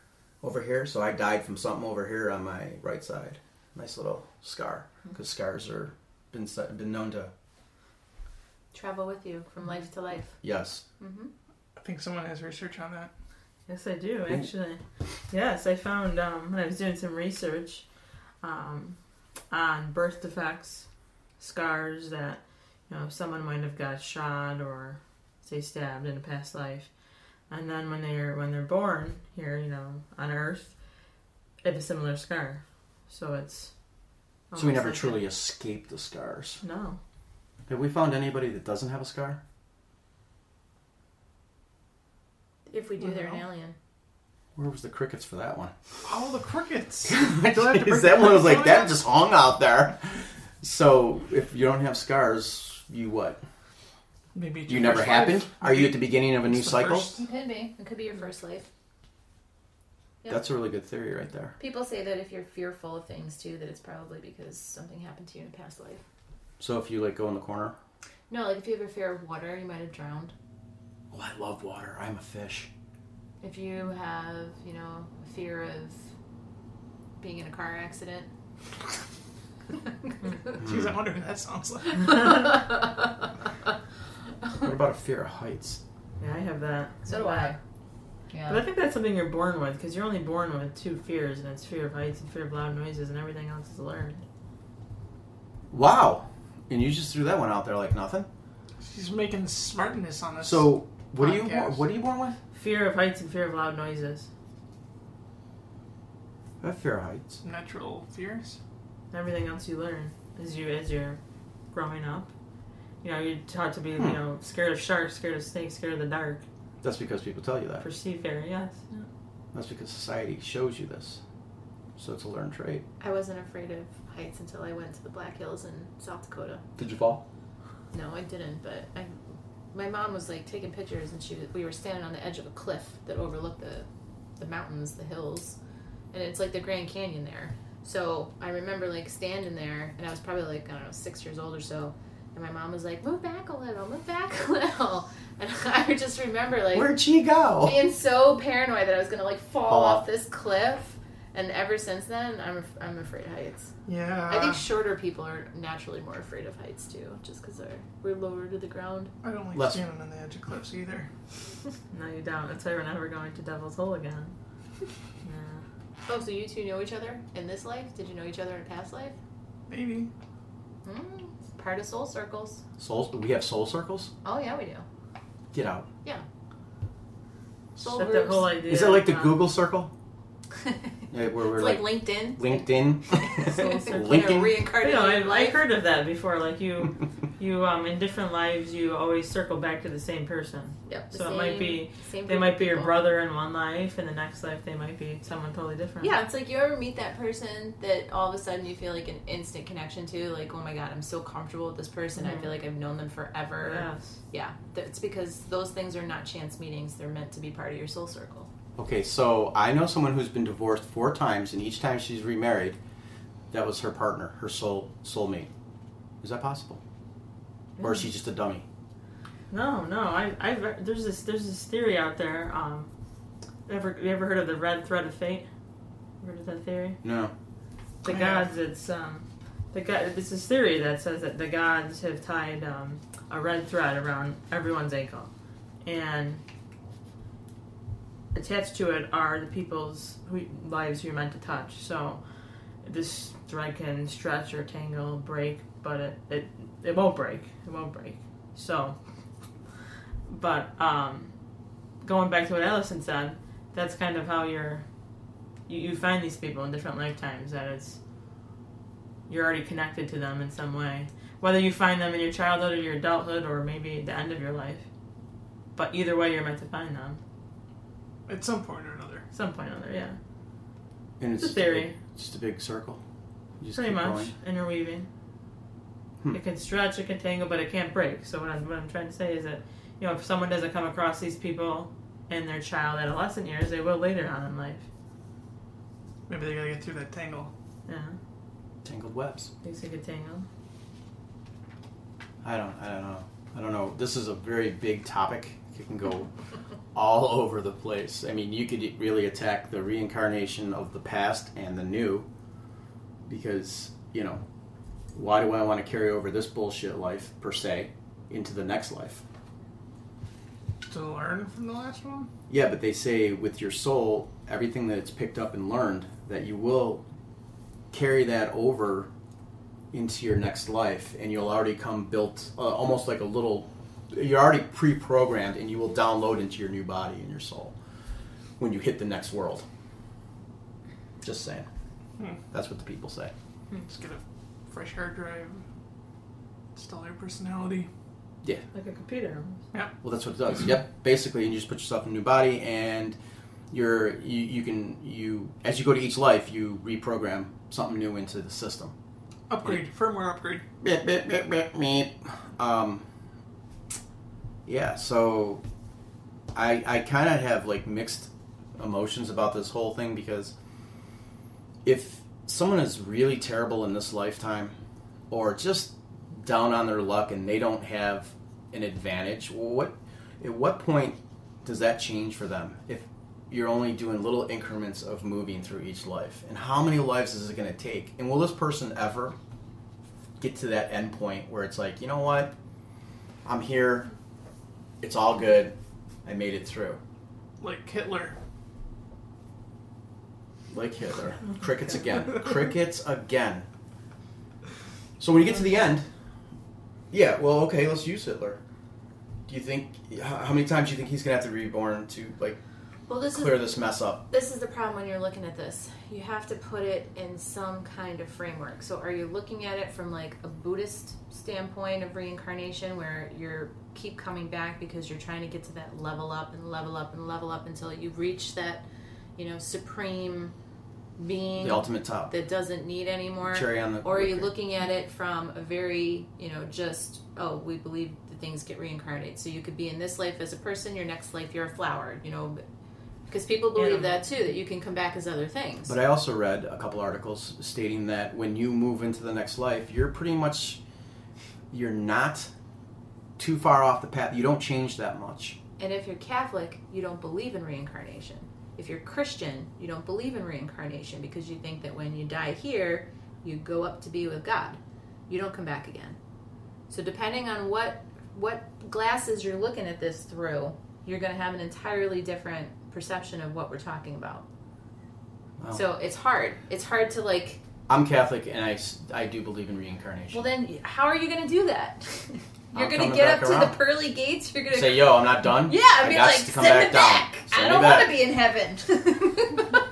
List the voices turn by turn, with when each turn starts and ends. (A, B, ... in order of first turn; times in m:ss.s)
0:00.4-0:07.3 A
0:08.7-0:10.4 B
0:10.4-0:10.8 A
0:11.0-0:11.3 B
0:11.8-0:13.1 C
0:13.7-0:17.8 D
0:18.4-0:19.0 D
0:19.5-0:20.9 D
0:21.4-0:26.9 D
0:27.5-0:30.7 D
0:31.6-0:33.7 D
0:34.5-0:35.2 D
0:34.5-0:36.6 A
0:36.6-0:37.0 D
0:37.7-0:39.4 A
0:42.7-0:43.8 B
0:44.6-0:45.7 A
0:46.0-0:49.0 C
0:47.0-0:53.4 A
0:54.3-0:57.2 C
0:54.7-0:57.1 A
0:57.2-0:58.7 B
1:00.3-1:01.5 A
1:01.6-1:06.0 B
1:06.6-1:07.8 A
1:08.3-1:10.3 B
1:11.1-1:12.7 A
1:13.4-1:16.0 B
1:17.2-1:18.3 B
1:20.6-1:22.5 C
1:20.6-1:20.9 A
1:24.6-1:25.8 A
1:26.2-1:27.5 D
1:27.1-1:27.6 B
1:28.3-1:28.6 B
1:28.5-1:34.2 D
1:35.7-1:38.3 A
1:38.8-1:41.8 C
1:40.4-1:42.4 A
1:42.5-1:44.3 D
1:46.6-1:47.4 A
1:47.4-1:48.6 C
1:49.1-1:51.2 D
1:51.7-1:52.3 D
1:53.0-1:56.4 D
1:56.8-1:57.8 A
1:57.8-1:59.1 D
1:59.5-2:01.2 A
2:02.0-2:02.8 A
2:03.0-2:06.6 B
2:06.8-2:07.2 A
2:07.9-2:13.9 B
2:14.4-2:15.6 B
2:16.1-2:27.0 B
2:26.7-2:27.8 A
2:27.6-2:33.7 B
2:29.7-2:30.0 A
2:33.8-2:34.6 C
2:34.3-2:39.1 B
2:39.2-2:41.1 C
2:39.5-2:39.8 A
2:41.9-2:44.3 D
2:45.2-2:45.6 D
2:46.1-2:49.2 B
2:49.7-2:50.1 C
2:50.8-2:52.6 B
2:52.8-2:54.1 A
2:54.2-2:54.8 B
2:55.5-2:55.9 A
2:57.8-2:58.5 B
2:57.8-2:59.4 D
2:58.7-2:59.9 A
3:01.1-3:04.5 A
3:01.5-3:05.6 B
3:03.4-3:04.3 D
3:04.8-3:16.1 D
3:10.9-3:13.0 B
3:16.0-3:28.5 B
3:22.2-3:22.5 D
3:23.6-3:24.2 D
3:28.8-3:32.8 A
3:33.5-3:35.5 A
3:36.2-3:36.8 A
3:37.8-3:38.1 D
3:37.8-3:38.6 A
3:39.5-3:42.9 D
3:43.7-3:45.5 D
3:46.2-3:47.0 D
3:47.0-3:47.3 A
3:48.0-3:55.3 D
3:48.0-3:48.4 C
3:55.8-3:56.4 D
3:58.3-4:02.2 D
4:02.8-4:09.0 D
4:10.3-4:11.3 D
4:12.0-4:14.8 D
4:15.7-4:18.0 D
4:19.3-4:24.8 D
4:25.8-4:27.2 D
4:28.3-4:29.3 C
4:29.3-4:30.2 D
4:31.2-4:33.0 A
4:31.4-4:32.0 D
4:33.6-4:34.3 A
4:33.7-4:35.1 D
4:36.3-4:44.8 D
4:46.3-4:47.5 C
4:47.9-4:48.2 D
4:48.8-4:49.5 A
4:49.6-4:50.5 D
4:52.4-4:56.3 A
4:56.9-5:02.3 A
5:03.2-5:04.4 A
5:05.1-5:09.2 A
5:10.9-5:12.3 C
5:12.5-5:17.0 A
5:17.9-5:19.1 A
5:19.9-5:27.7 A
5:28.6-5:29.6 A
5:31.2-5:31.7 A
5:32.5-5:33.3 A
5:33.9-5:35.6 C
5:36.7-5:37.9 C
5:38.7-5:39.6 D
5:40.0-5:43.2 A
5:43.7-5:48.9 A
5:49.5-5:50.6 C
5:50.8-5:53.0 A
5:54.6-5:55.6 A
5:56.5-6:00.5 A
6:01.8-6:04.8 A
6:05.3-6:19.4 A
6:20.4-6:22.5 A
6:23.4-6:24.1 A
6:25.0-6:27.0 A
6:27.6-6:28.4 C
6:30.7-6:33.6 A
6:35.2-6:36.1 A
6:37.1-6:38.6 A
6:39.5-6:42.6 A
6:43.1-6:58.8 B
6:43.3-6:44.2 A
6:59.4-7:00.5 B
7:01.2-7:12.6 B
7:01.6-7:02.3 A
7:03.5-7:04.5 A
7:13.3-7:15.9 B
7:13.8-7:14.2 D
7:15.9-7:20.8 A
7:21.7-7:22.5 A
7:23.4-7:25.6 A
7:25.8-7:36.2 B
7:36.9-7:44.4 B
7:45.7-7:47.6 B
7:47.9-7:50.5 A
7:50.3-7:59.8 B
7:52.7-7:53.8 A
7:54.7-7:58.1 A